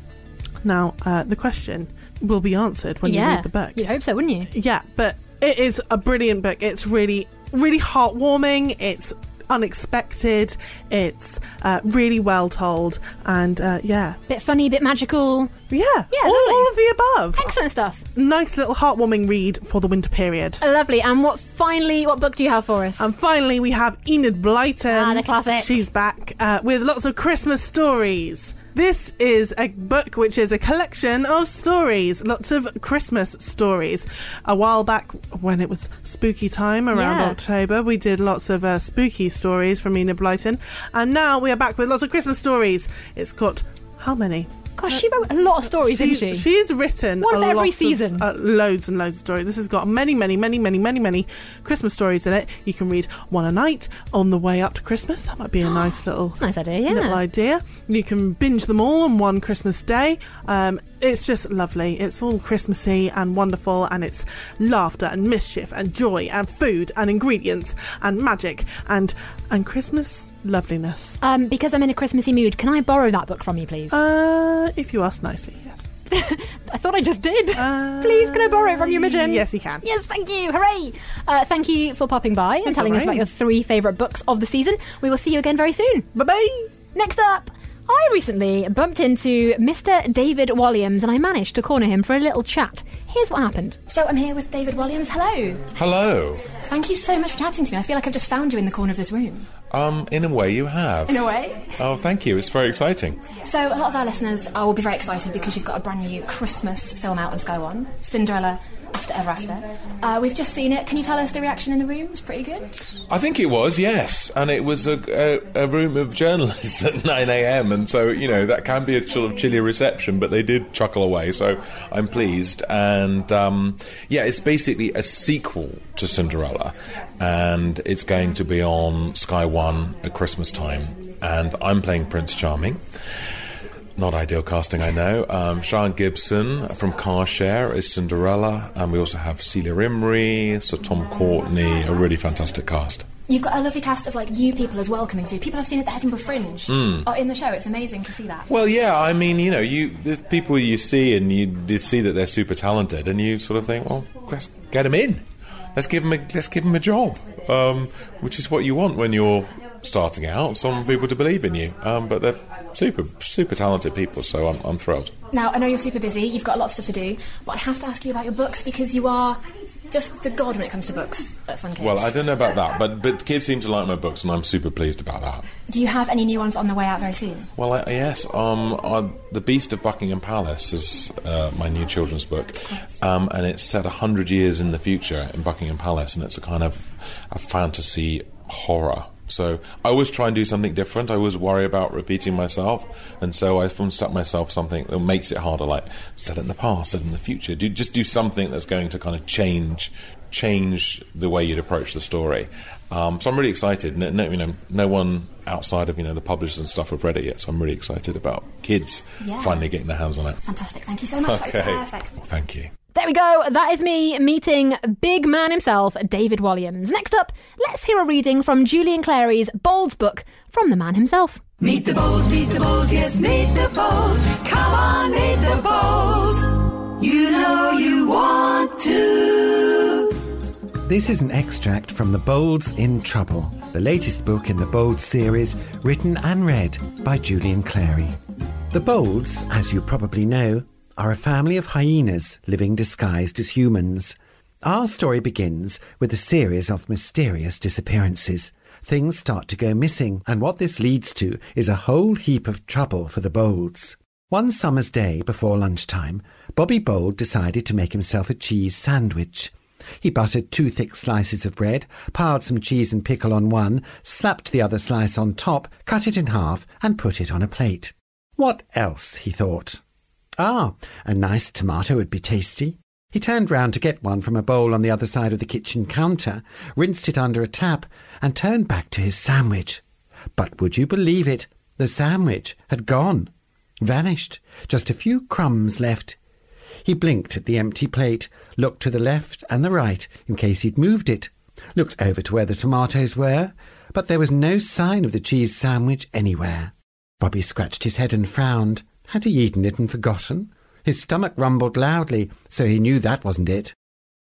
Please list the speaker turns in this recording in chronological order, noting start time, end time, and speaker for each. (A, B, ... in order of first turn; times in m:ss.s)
0:00.6-0:03.8 A
0:03.0-0:04.5 B
0:04.5-0:14.2 A
0:14.3-0:15.6 B
0:15.7-0:17.5 A
0:16.1-0:16.7 B
0:17.4-0:18.0 B
0:18.2-0:20.6 A
0:20.6-0:23.1 B
0:23.0-1:11.2 A
0:24.9-0:25.8 B
0:36.9-0:37.4 B
0:44.8-0:46.5 B
0:47.2-0:48.2 B
0:56.4-0:57.2 B
1:11.2-1:14.0 B
1:13.9-1:15.9 A
1:16.1-1:26.1 B
1:17.6-1:19.8 A
1:22.7-1:23.3 A
1:26.2-1:26.7 A
1:26.9-1:35.6 B
1:35.8-1:36.5 C
1:36.6-1:39.5 B
1:39.7-1:41.3 C
1:41.1-1:41.7 B
1:41.8-1:43.2 C
1:43.4-1:52.9 B
1:53.1-2:12.8 C
2:14.0-2:23.1 C
2:23.3-2:28.5 B
2:26.7-2:27.1 C
2:28.5-2:45.2 C
2:45.3-2:52.0 B
2:51.8-2:55.5 C
2:55.7-2:57.5 B
2:57.6-3:30.4 C
3:29.2-3:29.6 B
3:30.4-3:32.1 B
3:31.2-3:32.7 C
3:32.9-3:41.4 B
3:41.6-3:50.1 D
3:50.8-3:58.2 E
3:58.7-4:29.8 E
4:30.4-4:39.8 E
4:40.4-4:43.3 E
4:43.8-4:46.2 E
4:46.8-5:03.8 E